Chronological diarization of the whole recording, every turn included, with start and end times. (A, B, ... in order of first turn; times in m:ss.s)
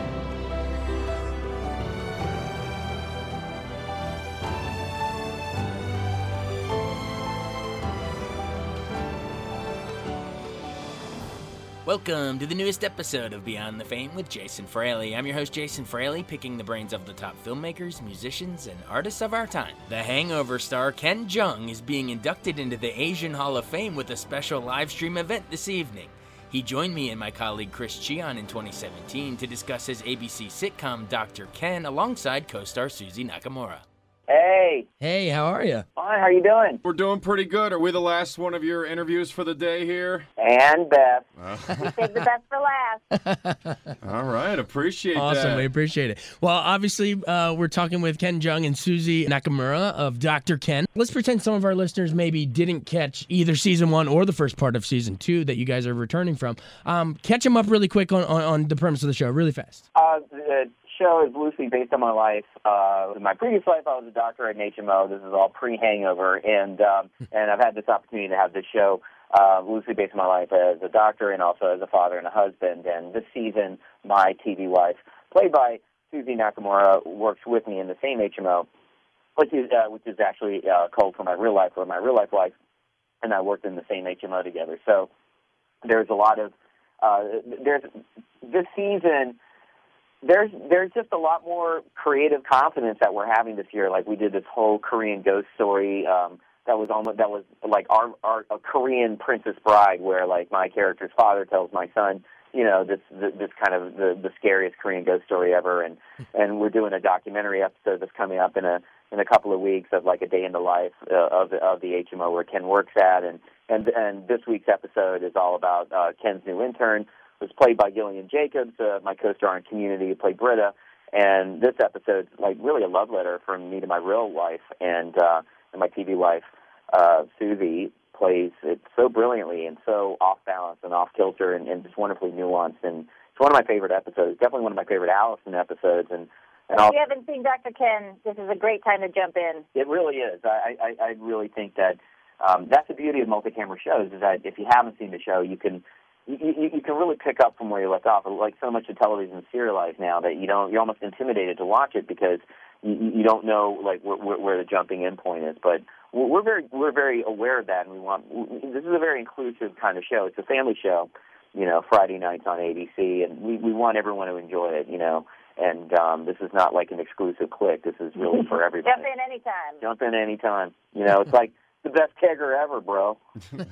0:11.8-0:33.8 A
0:34.3-0:34.9 B
0:35.0-0:35.8 C
0:36.0-0:36.8 B
0:36.8-0:40.3 D
0:40.4-0:41.3 B
0:41.4-0:42.1 D
0:41.7-0:43.0 E
0:43.2-0:43.8 C
0:44.0-0:45.7 D
0:45.1-0:59.8 C
0:59.9-1:18.7 B
1:19.4-1:22.5 B
1:23.2-1:25.1 B
1:25.8-1:27.9 B
1:28.4-1:29.4 B
1:30.2-2:16.9 B
2:16.7-2:19.6 E
2:19.7-2:49.1 B
2:48.8-2:49.8 E
2:49.8-2:53.2 B